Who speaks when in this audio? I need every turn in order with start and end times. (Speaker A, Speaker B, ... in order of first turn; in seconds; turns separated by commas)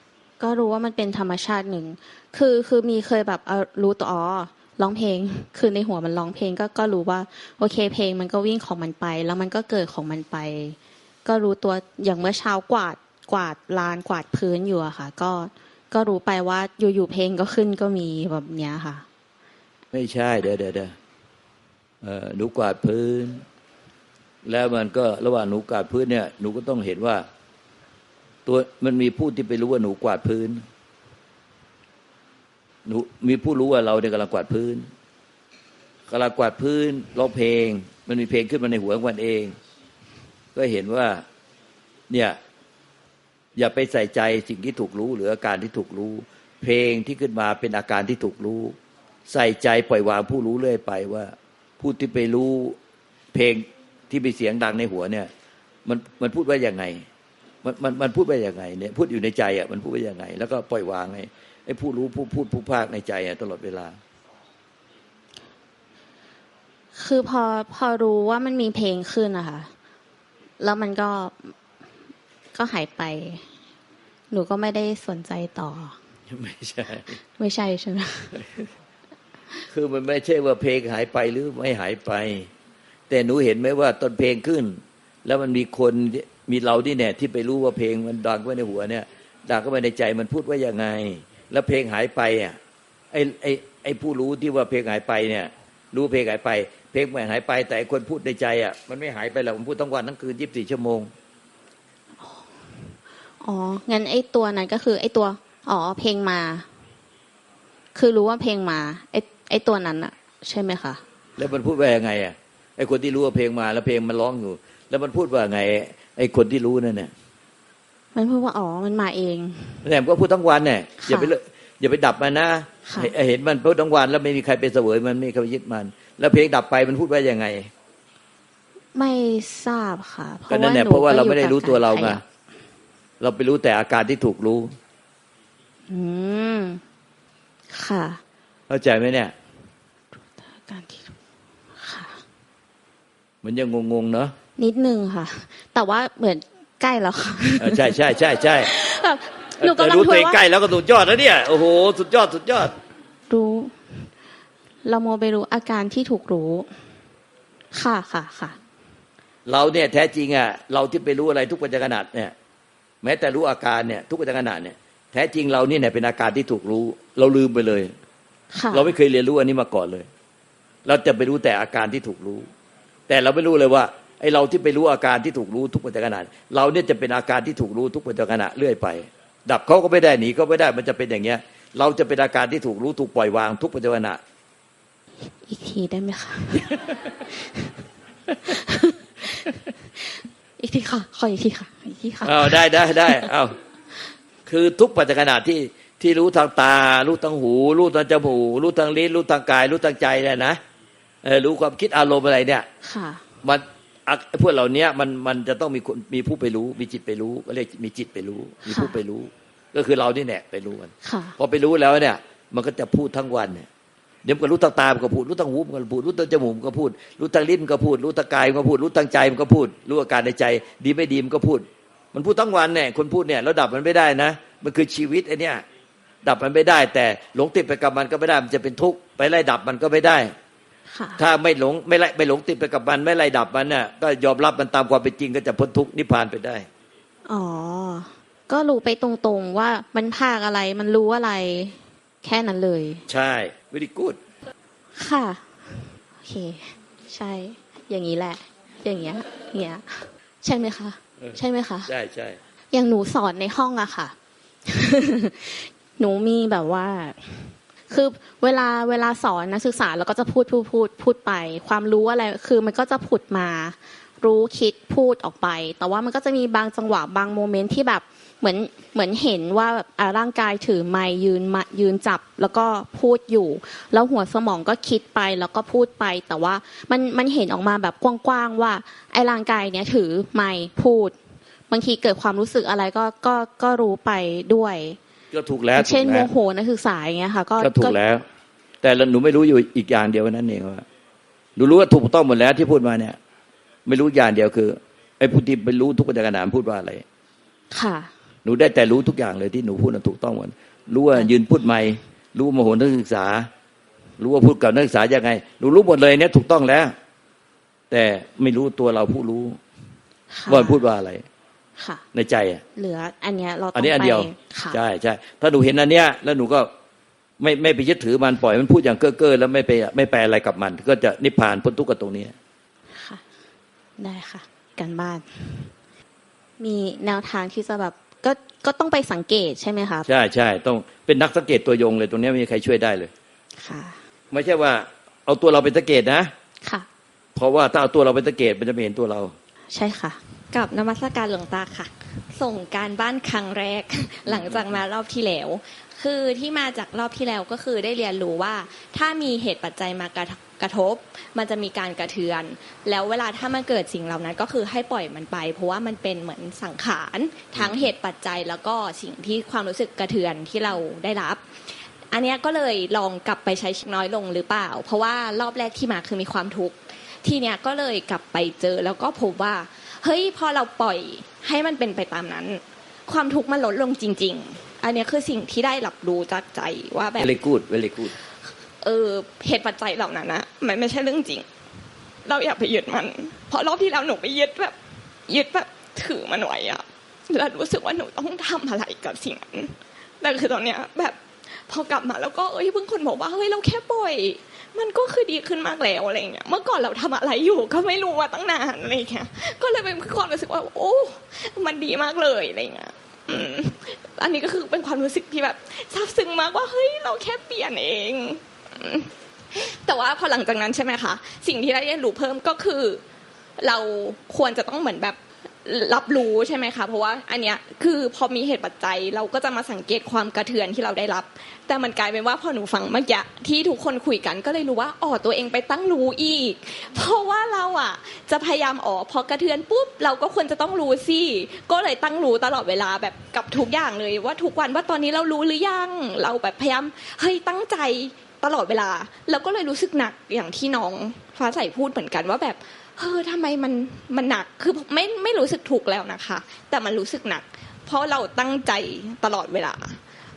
Speaker A: 0.4-19.1, Speaker B: 19.9-20.9, Speaker B: 22.0-23.4, Speaker B: 24.5-27.2, Speaker B: 28.5-30.6, Speaker B: 32.9-34.9, Speaker B: 36.1-39.6, Speaker B: 40.5-41.2, Speaker B: 42.1-42.4, Speaker B: 43.6-48.8, Speaker B: 49.3-52.8, Speaker B: 53.3-55.3, Speaker B: 55.9-57.0, Speaker B: 57.6-64.0, Speaker A: 67.0-69.7, Speaker A: 70.6-71.5, Speaker A: 72.5-73.5, Speaker A: 74.3-76.0, Speaker B: 76.3-77.2, Speaker A: 77.4-78.4, Speaker B: 79.7-82.5, Speaker B: 83.1-92.6, Speaker B: 93.1-101.1, Speaker A: 102.2-106.7, Speaker A: 108.0-111.0, Speaker B: 111.4-117.1, Speaker A: 118.1-119.8, Speaker B: 119.8-127.7, Speaker A: 121.0-121.3, Speaker A: 122.9-123.1, Speaker A: 128.9-132.2, Speaker B: 130.5-132.2, Speaker B: 133.2-134.8, Speaker A: 135.9-136.8, Speaker A: 137.7-138.2, Speaker B: 138.7-139.3, Speaker A: 140.2-141.1, Speaker A: 141.8-142.2, Speaker B: 143.4-144.3, Speaker A: 144.6-148.0, Speaker B: 147.6-148.7, Speaker A: 148.6-150.4, Speaker B: 149.6-152.7, Speaker A: 153.3-154.1, Speaker A: 154.8-156.8, Speaker A: 157.7-158.6, Speaker B: 159.5-162.3, Speaker B: 163.0-167.9, Speaker A: 168.5-169.0, Speaker B: 168.7-170.1, Speaker B: 170.8-172.5, Speaker B: 173.1-184.2, Speaker A: 185.5-187.8, Speaker A: 188.4-193.3, Speaker B: 192.2-193.6, Speaker B: 194.5-200.6, Speaker B: 201.2-202.7, Speaker A: 202.8-203.2, Speaker B: 203.4-213.7, Speaker A: 208.7-209.0, Speaker A: 211.0-211.4, Speaker B: 214.2-225.6, Speaker B: 226.2-230.3, Speaker A: 230.9-231.2, Speaker B: 231.2-236.7, Speaker A: 237.2-243.0, Speaker B: 243.1-244.2, Speaker A: 245.0-251.9, Speaker B: 251.2-252.4, Speaker A: 252.7-254.1, Speaker A: 254.7-281.1, Speaker A: 281.7-285.0, Speaker B: 285.3-286.3, Speaker A: 285.8-288.0, Speaker B: 287.6-288.2, Speaker B: 288.8-290.9, Speaker B: 291.6-293.2, Speaker B: 293.9-297.0, Speaker A: 297.7-298.1, Speaker B: 298.4-303.5, Speaker B: 304.2-306.9, Speaker B: 307.9-309.6, Speaker A: 310.3-310.8, Speaker B: 310.5-311.2, Speaker A: 311.8-312.0, Speaker B: 312.1-312.6, Speaker A: 312.8-314.8, Speaker B: 313.8-316.7, Speaker B: 317.4-322.4, Speaker A: 322.9-323.2, Speaker A: 324.0-325.7, Speaker A: 326.6-330.1, Speaker B: 330.1-333.1, Speaker A: 333.6-334.0, Speaker B: 334.3-336.3, Speaker A: 336.6-336.9, Speaker B: 337.4-339.4, Speaker A: 339.7-340.2, Speaker C: 340.5-361.5, Speaker B: 344.3-344.8, Speaker B: 357.6-357.9, Speaker C: 362.1-377.4, Speaker B: 377.2-378.1, Speaker C: 378.8-381.5, Speaker C: 382.2-384.8, Speaker C: 385.3-413.0, Speaker C: 413.6-450.0